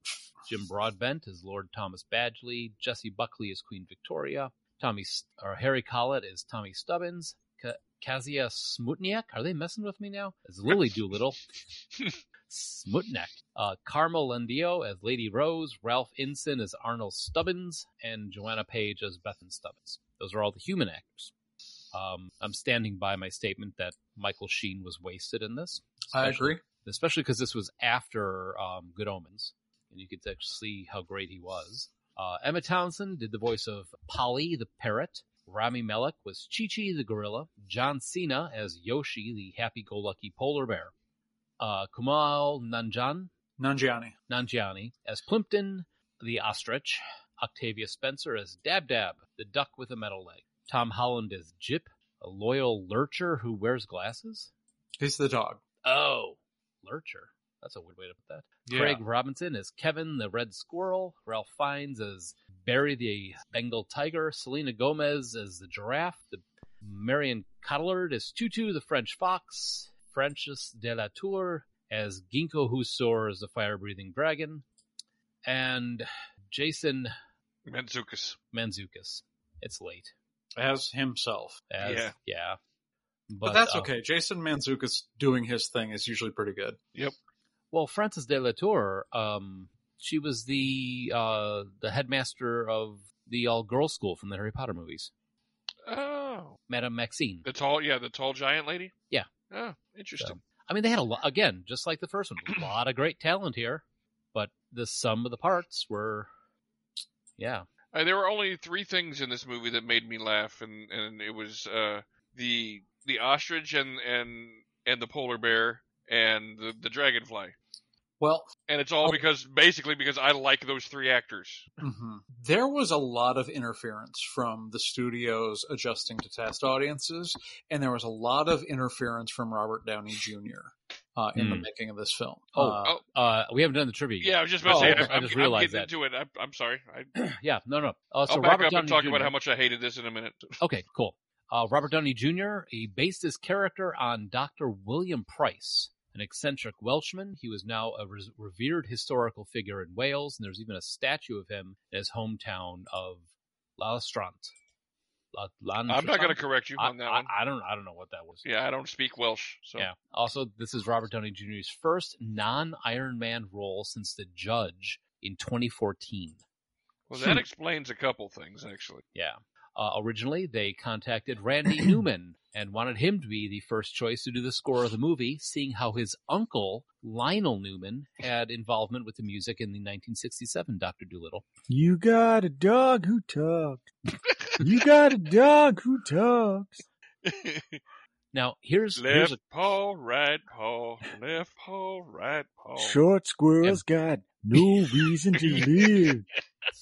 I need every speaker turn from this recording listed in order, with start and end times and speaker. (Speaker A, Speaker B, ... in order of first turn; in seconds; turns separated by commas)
Speaker A: 0.5-11.4, Speaker A: 12.5-21.3, Speaker A: 21.9-40.9, Speaker B: 26.1-26.6, Speaker A: 41.6-43.3, Speaker B: 43.6-44.2, Speaker A: 44.3-54.5, Speaker B: 55.0-55.6, Speaker A: 55.8-74.6, Speaker B: 58.7-59.0, Speaker A: 75.5-77.1, Speaker C: 77.7-78.4, Speaker A: 78.5-80.1, Speaker B: 80.6-81.7, Speaker A: 81.7-82.6, Speaker C: 81.8-82.1, Speaker A: 83.3-83.9, Speaker B: 83.4-86.8, Speaker A: 87.7-95.1, Speaker C: 95.9-96.6, Speaker A: 96.7-97.5, Speaker C: 97.5-98.9, Speaker C: 99.5-100.4, Speaker A: 100.2-106.3, Speaker A: 107.4-107.7, Speaker C: 107.9-117.5, Speaker B: 118.2-118.5, Speaker C: 118.7-121.7, Speaker B: 121.8-133.0, Speaker A: 131.3-131.7, Speaker A: 132.5-135.9, Speaker C: 134.2-137.1, Speaker B: 134.7-135.1, Speaker A: 137.2-139.3, Speaker C: 138.3-140.6, Speaker A: 140.6-154.5, Speaker A: 155.3-158.4, Speaker C: 155.9-157.3, Speaker C: 158.4-159.9, Speaker A: 159.8-166.4, Speaker C: 167.1-169.0, Speaker A: 169.2-181.5, Speaker D: 181.7-183.9, Speaker D: 184.6-186.8, Speaker C: 187.2-187.8, Speaker A: 188.3-189.4, Speaker C: 189.0-193.0, Speaker D: 192.8-196.3, Speaker C: 195.5-195.9